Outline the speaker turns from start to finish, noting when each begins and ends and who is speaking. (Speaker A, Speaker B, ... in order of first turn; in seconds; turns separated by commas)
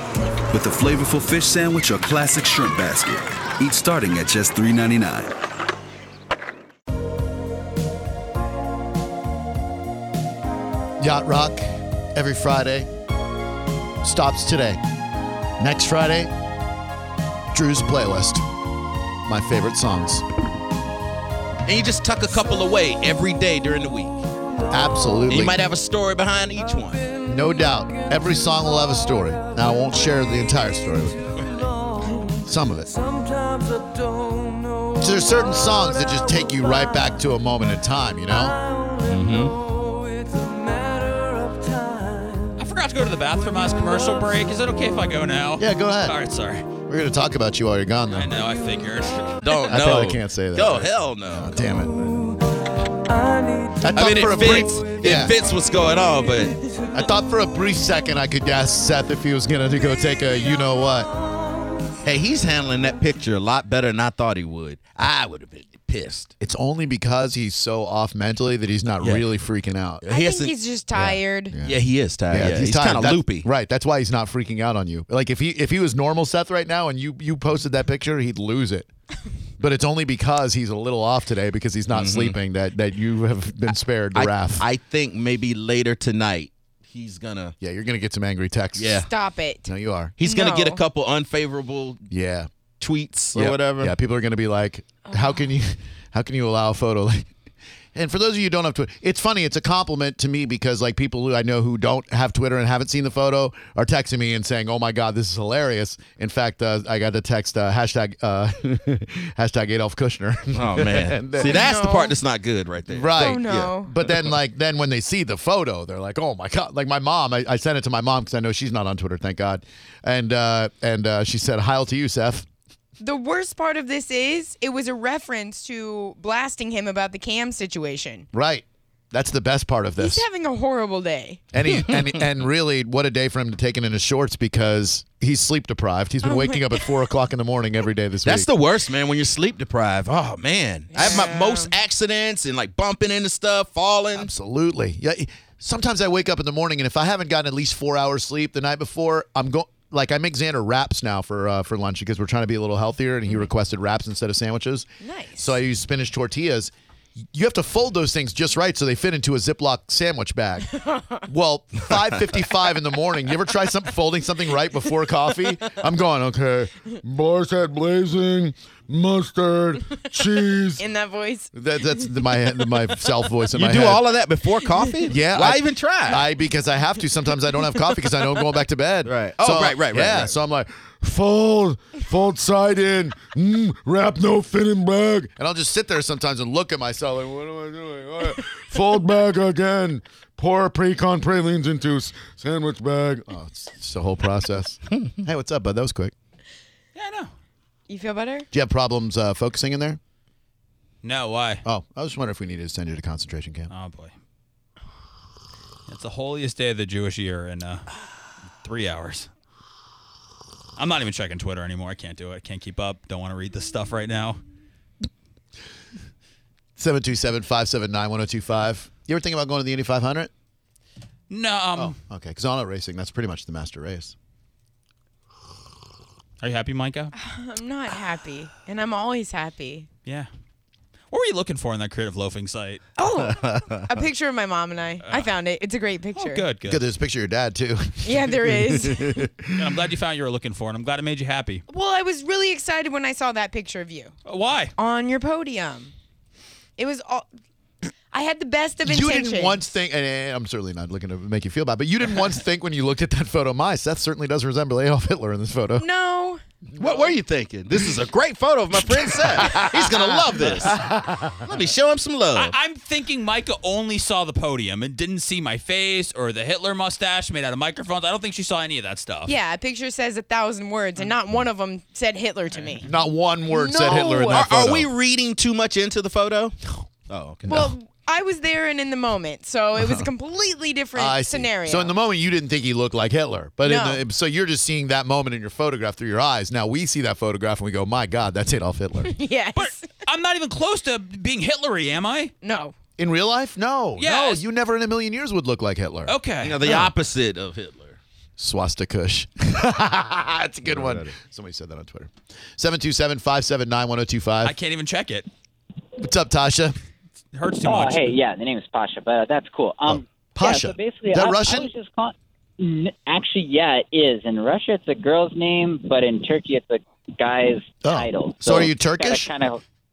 Speaker A: 0.5-5.3, Speaker B: 11.0-12.9, Speaker B: 14.0-14.8, Speaker B: 15.6-16.3, Speaker B: 17.5-18.4, Speaker B: 19.3-20.2, Speaker C: 21.7-24.2, Speaker B: 24.7-25.6, Speaker C: 25.3-27.1, Speaker B: 27.3-31.4, Speaker B: 32.4-32.9, Speaker B: 35.0-38.6, Speaker C: 39.0-39.6, Speaker D: 42.6-46.7, Speaker B: 45.6-46.2, Speaker B: 46.9-48.4, Speaker D: 48.1-49.3, Speaker C: 49.4-52.0, Speaker B: 49.7-52.1, Speaker B: 53.8-55.3, Speaker C: 54.0-56.6, Speaker B: 56.9-61.1, Speaker C: 62.0-66.3, Speaker B: 66.4-70.1, Speaker C: 70.0-70.5, Speaker E: 70.1-71.5, Speaker B: 71.0-78.9, Speaker C: 71.6-73.5, Speaker B: 79.6-84.7, Speaker C: 81.9-82.4, Speaker C: 84.2-87.5, Speaker B: 87.6-89.1, Speaker C: 88.8-89.1, Speaker E: 89.0-89.7, Speaker B: 89.7-90.2, Speaker C: 90.2-92.1, Speaker E: 90.2-90.8, Speaker B: 92.1-92.5, Speaker C: 92.8-93.9, Speaker B: 93.3-97.3, Speaker E: 95.1-95.5, Speaker B: 98.0-111.7, Speaker C: 110.5-114.2, Speaker E: 111.4-112.2, Speaker B: 112.9-122.5, Speaker E: 113.2-113.9, Speaker E: 123.0-128.3, Speaker B: 128.3-130.2, Speaker E: 130.0-131.4, Speaker B: 131.5-138.5, Speaker E: 136.2-136.8, Speaker C: 138.2-144.3, Speaker E: 140.9-141.7, Speaker B: 144.2-156.7, Speaker E: 155.0-155.6, Speaker B: 157.3-160.7, Speaker E: 160.7-161.2, Speaker B: 161.3-170.8, Speaker E: 170.8-172.1, Speaker B: 171.5-174.1, Speaker C: 173.5-176.3, Speaker B: 175.1-196.1, Speaker C: 179.1-180.3, Speaker D: 196.9-197.3, Speaker E: 197.9-198.5, Speaker B: 198.5-200.0, Speaker D: 201.0-201.6, Speaker B: 201.7-203.7, Speaker D: 203.7-204.1, Speaker D: 205.9-207.8, Speaker D: 208.6-209.3, Speaker D: 210.8-214.4, Speaker B: 216.8-220.3, Speaker D: 221.3-221.9, Speaker B: 221.8-224.2, Speaker D: 226.4-227.1, Speaker E: 227.2-229.9, Speaker D: 231.1-232.8, Speaker E: 233.0-236.4, Speaker C: 233.2-233.9, Speaker D: 235.0-235.3, Speaker D: 236.2-236.8, Speaker B: 236.7-239.7, Speaker E: 238.0-239.2, Speaker D: 239.5-241.6, Speaker E: 241.7-244.1, Speaker D: 244.2-244.7, Speaker E: 244.8-245.9, Speaker E: 246.8-247.3, Speaker E: 248.1-249.6, Speaker B: 248.8-255.8, Speaker E: 255.8-256.4, Speaker C: 256.8-260.9, Speaker B: 259.0-261.5, Speaker C: 261.4-262.5, Speaker D: 262.4-269.3, Speaker E: 269.3-272.9, Speaker B: 272.9-274.9, Speaker E: 273.5-274.5, Speaker C: 274.3-276.6, Speaker C: 277.1-277.7, Speaker E: 277.5-281.9, Speaker B: 279.8-280.1, Speaker B: 281.0-289.2, Speaker E: 283.6-284.0, Speaker E: 289.0-289.9, Speaker D: 289.6-292.3, Speaker E: 292.4-292.7, Speaker B: 293.0-296.8, Speaker D: 294.0-294.4, Speaker D: 296.1-296.9, Speaker C: 296.4-298.0, Speaker B: 298.4-304.6, Speaker C: 300.7-301.1, Speaker D: 304.4-305.3, Speaker B: 306.0-306.8, Speaker D: 307.3-308.1, Speaker F: 307.6-319.6, Speaker B: 309.9-311.7, Speaker B: 317.8-319.3